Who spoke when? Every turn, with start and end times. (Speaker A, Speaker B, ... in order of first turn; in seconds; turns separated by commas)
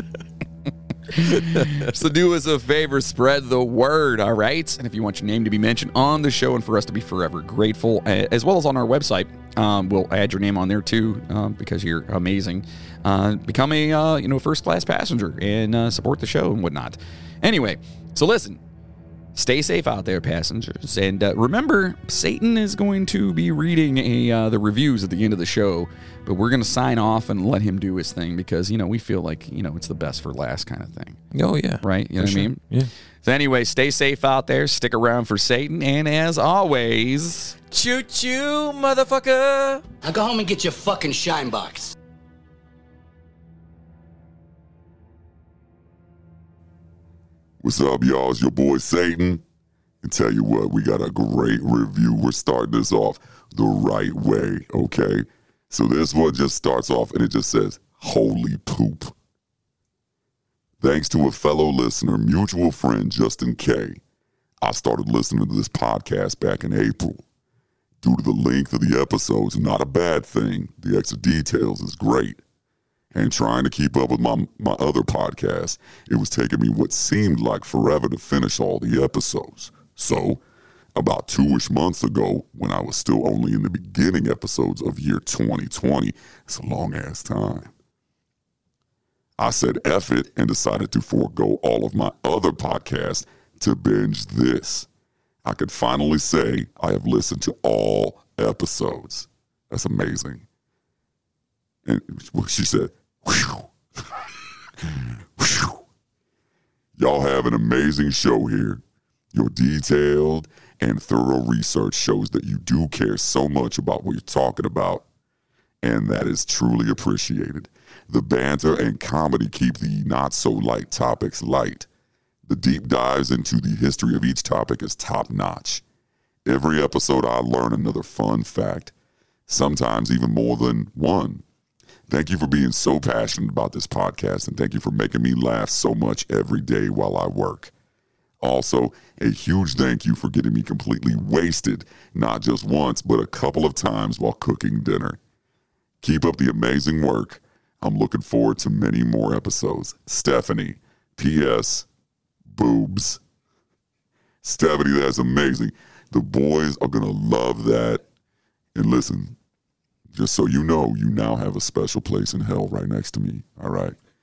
Speaker A: 1.1-18.6, Speaker B: 1.4-1.9, Speaker A: 19.4-31.2, Speaker B: 31.3-32.9, Speaker A: 31.8-32.6, Speaker A: 33.2-37.6, Speaker B: 37.7-39.9, Speaker C: 40.0-42.0, Speaker D: 47.6-49.4, Speaker D: 50.0-59.1, Speaker D: 60.8-64.0, Speaker D: 64.6-67.2, Speaker D: 68.0-72.4, Speaker D: 73.1-80.4, Speaker D: 81.0-87.7, Speaker D: 89.4-94.9, Speaker D: 95.5-100.5, Speaker D: 101.9-104.2, Speaker D: 104.8-105.8, Speaker D: 107.0-108.8, Speaker D: 109.3-115.0, Speaker D: 115.8-121.9, Speaker D: 122.5-125.8, Speaker D: 126.5-128.9, Speaker D: 129.5-131.4, Speaker D: 132.1-137.7, Speaker D: 138.4-145.2, Speaker D: 146.0-151.9, Speaker D: 152.5-153.2, Speaker D: 154.4-158.0, Speaker D: 158.8-159.4, Speaker D: 160.1-164.0